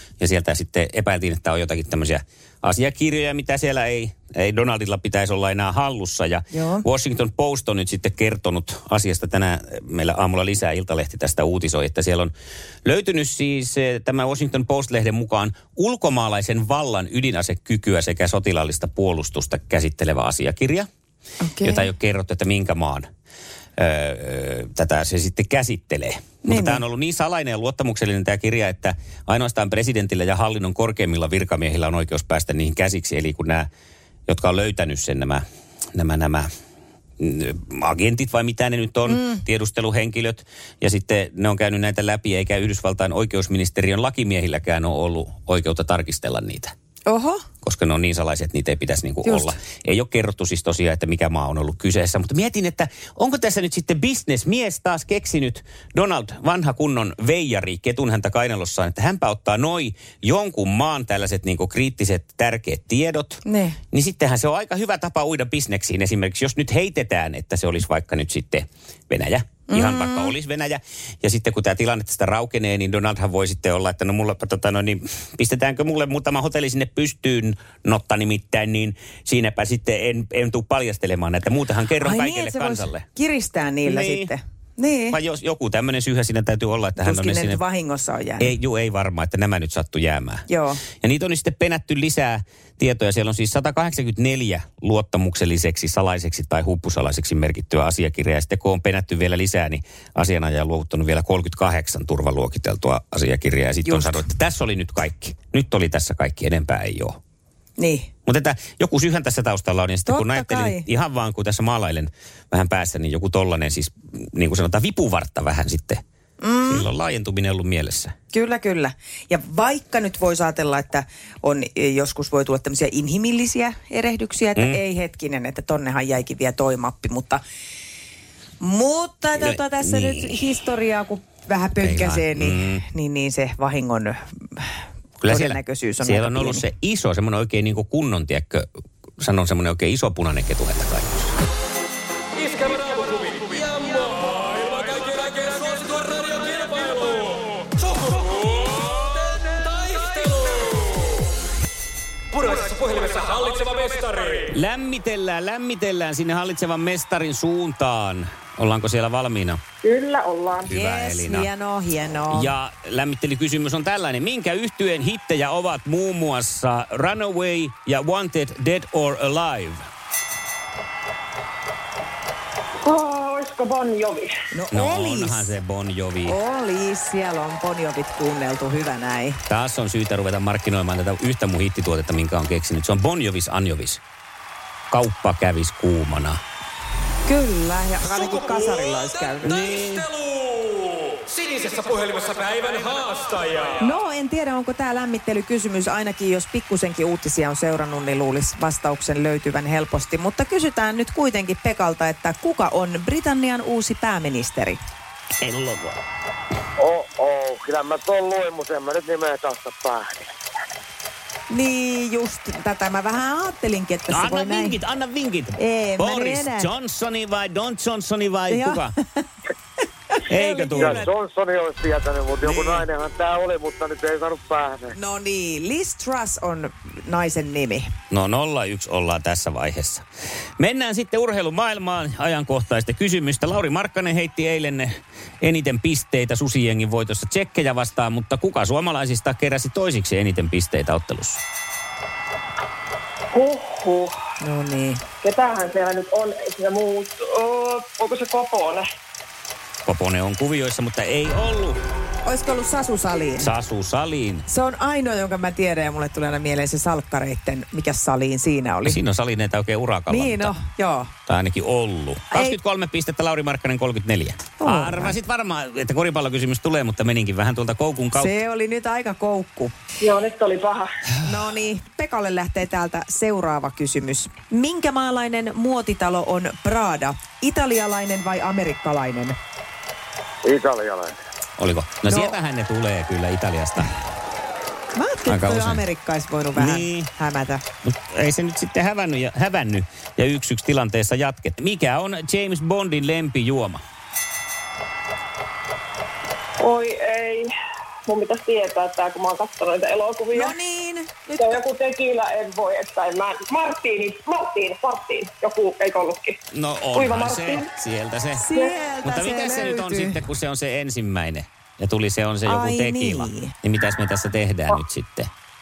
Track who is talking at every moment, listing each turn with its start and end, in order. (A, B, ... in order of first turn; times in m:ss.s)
0:00.2-0:12.3 A
0:06.5-0:06.8 B
0:12.8-0:20.9 A
0:21.4-0:21.9 B
0:21.6-0:23.1 A
0:23.8-0:33.7 A
0:26.5-0:26.8 B
0:34.3-0:35.4 A
0:36.0-0:36.5 A
0:37.2-0:46.7 A
0:39.1-0:39.4 B
0:47.1-0:47.4 B
0:47.6-1:23.0 A
0:49.2-0:49.5 B
1:03.4-1:03.8 B
1:09.7-1:10.3 B
1:22.0-1:25.2 B
1:23.8-1:24.3 A
1:25.1-1:27.6 A
1:27.0-1:28.5 B
1:28.4-1:47.2 A
1:30.5-1:30.8 B
1:47.8-1:48.1 B
1:48.3-1:56.0 A
1:50.1-1:50.8 B
1:56.4-1:56.9 B
1:56.7-1:58.1 A
1:58.3-2:07.4 B
2:08.6-2:14.7 B
2:09.4-2:10.4 A
2:11.8-2:12.8 A
2:15.2-2:18.7 A
2:15.3-2:16.6 B
2:19.2-2:21.4 A
2:22.4-2:31.2 C
2:32.3-2:34.5 C
2:34.5-2:39.6 A
2:39.8-2:40.7 D
2:40.6-2:41.5 A
2:40.7-2:42.5 B
2:42.3-2:49.8 A
2:52.8-2:54.3 D
2:54.5-2:55.6 B
2:54.7-2:56.4 A
2:56.3-2:59.4 B
2:59.5-3:04.0 A
3:04.9-3:06.4 A
3:07.2-3:09.7 B
3:09.4-3:13.8 C
3:09.4-3:10.1 A
3:13.8-3:24.8 B
3:25.4-3:26.0 A
3:26.8-3:30.3 E
3:31.5-3:34.8 B
3:34.1-3:38.9 A
3:35.6-3:36.7 B
3:38.5-3:39.3 B
3:40.1-3:41.1 B
3:40.3-3:41.0 A
3:40.8-3:44.9 E
3:42.4-3:42.9 A
3:45.0-3:47.9 B
3:48.1-3:50.0 A
3:50.6-4:01.4 A
4:03.3-4:04.2 D
4:04.4-4:05.0 B
4:05.2-4:08.8 D
4:09.8-4:11.8 A
4:12.2-4:13.5 B
4:13.4-4:14.5 A
4:14.5-4:19.0 B
4:18.8-4:20.6 A
4:20.1-4:21.1 B
4:21.3-4:28.3 A
4:22.3-4:22.6 B
4:24.6-4:25.2 B
4:28.2-4:29.7 B
4:30.0-4:30.9 D
4:31.2-4:39.4 B
4:40.4-4:41.2 E
4:41.6-4:44.0 A
4:42.1-4:42.4 B
4:44.9-4:47.6 B
4:45.3-4:45.8 A
4:46.6-4:47.1 A
4:47.8-4:53.8 A
4:56.6-4:57.5 D
4:58.1-5:00.6 D
5:00.3-5:01.6 B
5:01.4-5:06.4 D
5:06.5-5:08.4 A
5:06.9-5:07.7 D
5:08.3-5:10.2 B
5:09.0-5:15.3 A
5:12.5-5:13.5 B